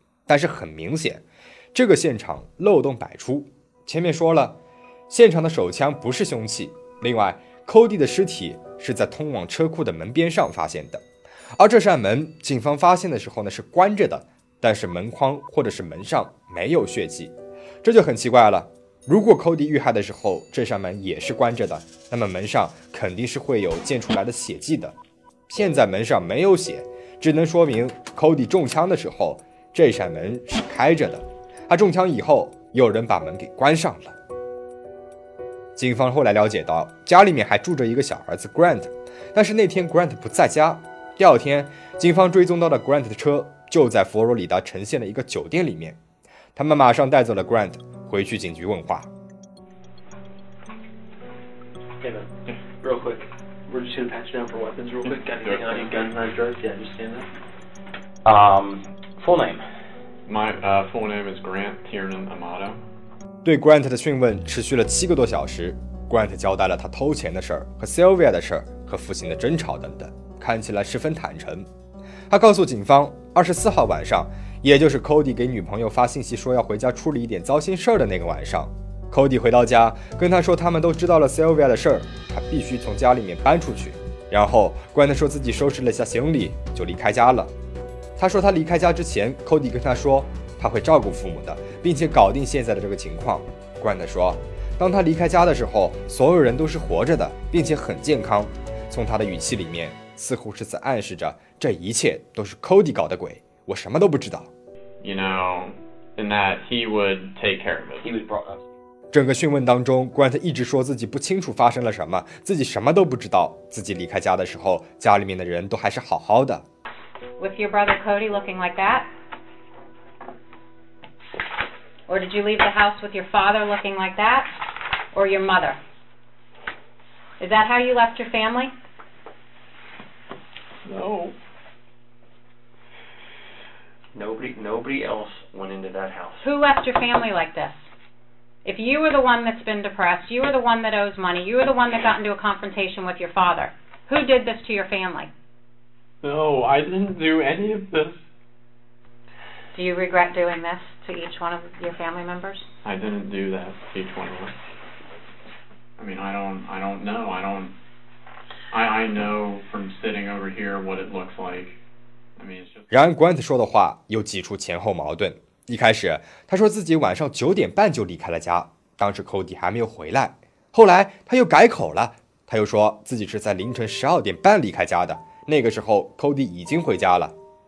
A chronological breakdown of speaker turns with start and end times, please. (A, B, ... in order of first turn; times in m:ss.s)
0:00.3-0:11.0 A
0:11.6-0:25.0 A
0:25.5-0:34.2 A
0:35.7-0:46.0 A
0:46.5-0:49.1 A
0:52.0-0:52.3 B
0:52.8-0:57.3 B
0:55.0-0:56.2 C
0:58.2-0:59.6 D
1:00.2-1:02.8 C
1:03.4-1:11.7 A
1:12.3-1:27.5 A
1:28.2-1:44.5 A
1:45.0-1:48.1 C
1:48.0-1:48.6 D
1:49.1-1:56.6 A
1:57.4-1:59.1 E
2:02.1-2:04.5 E
2:05.1-2:05.8 E
2:07.4-2:08.7 E
2:10.8-2:11.3 C
2:14.1-2:16.4 D
2:16.4-2:17.9 E
2:18.6-2:25.3 E
2:26.2-2:28.2 C
2:29.7-2:32.6 E
2:32.8-2:34.5 C
2:36.0-2:37.7 C
2:38.7-2:41.8 C
2:42.4-2:42.9 C
2:42.9-2:57.3 A